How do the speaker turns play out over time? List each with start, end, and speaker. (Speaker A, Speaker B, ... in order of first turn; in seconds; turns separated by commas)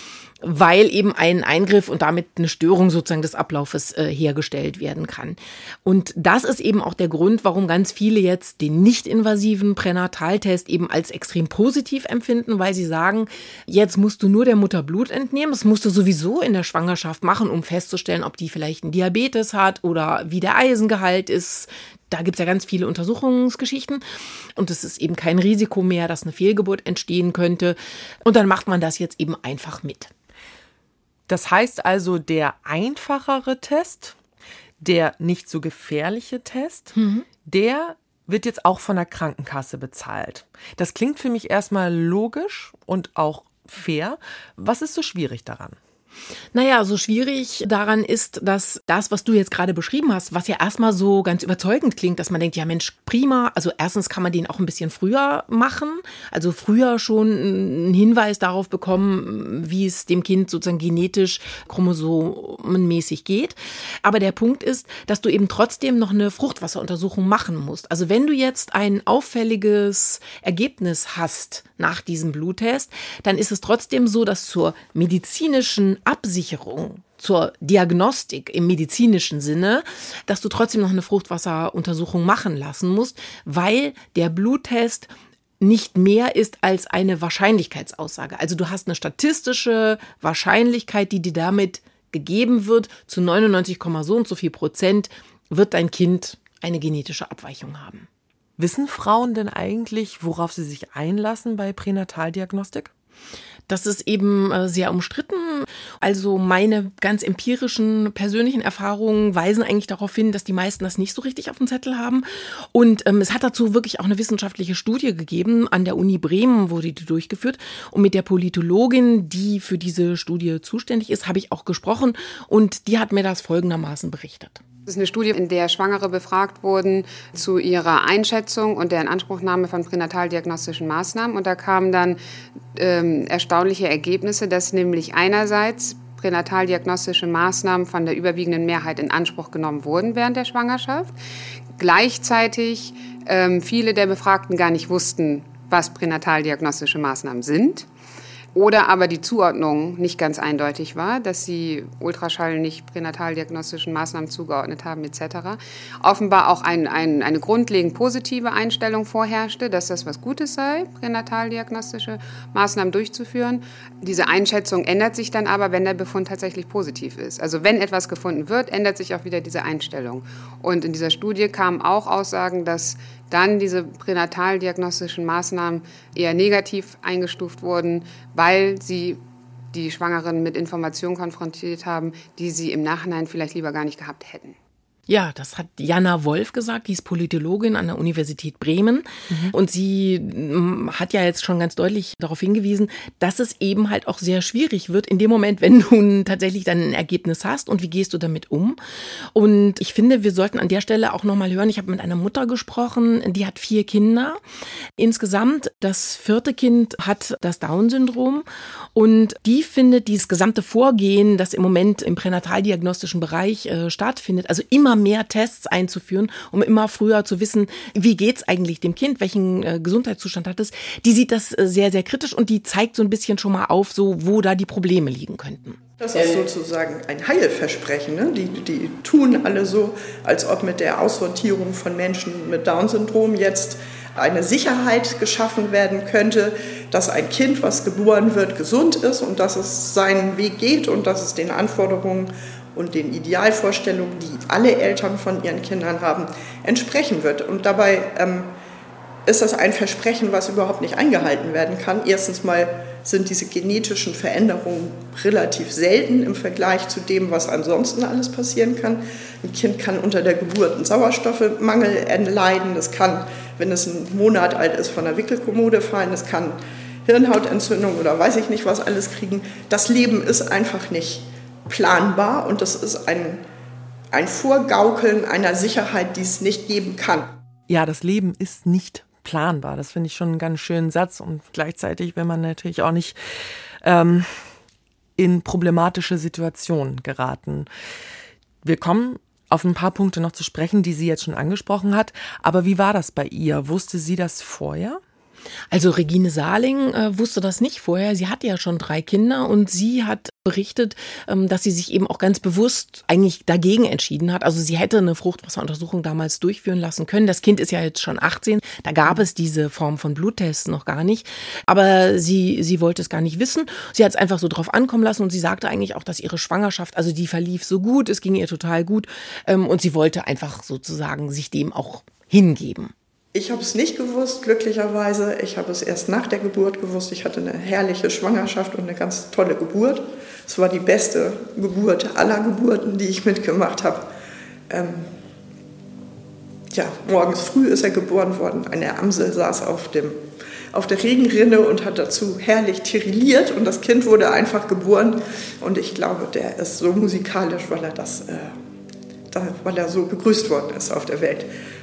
Speaker A: 0.4-24.0, Speaker A: 24.6-30.1, Speaker B: 31.3-34.2, Speaker B: 34.8-36.9, Speaker A: 36.9-37.2, Speaker B: 37.4-45.8, Speaker A: 46.5-98.1, Speaker B: 98.6-102.9, Speaker A: 103.7-124.6, Speaker C: 124.9-132.2, Speaker C: 132.7-141.1, Speaker C: 141.8-147.9, Speaker C: 148.5-179.2, Speaker C: 179.7-184.6, Speaker A: 185.1-198.8, Speaker B: 189.3-189.5, Speaker A: 199.3-204.4, Speaker A: 205.0-226.4, Speaker D: 226.0-248.5, Speaker D: 249.2-273.4, Speaker D: 274.1-277.3, Speaker B: 277.7-283.2, Speaker B: 283.8-284.4, Speaker B: 285.2-287.7, Speaker B: 288.6-295.0, Speaker A: 295.7-322.9, Speaker D: 323.3-334.1, Speaker D: 334.7-335.1, Speaker D: 336.7-340.2, Speaker D: 340.7-348.5, Speaker D: 349.3-351.5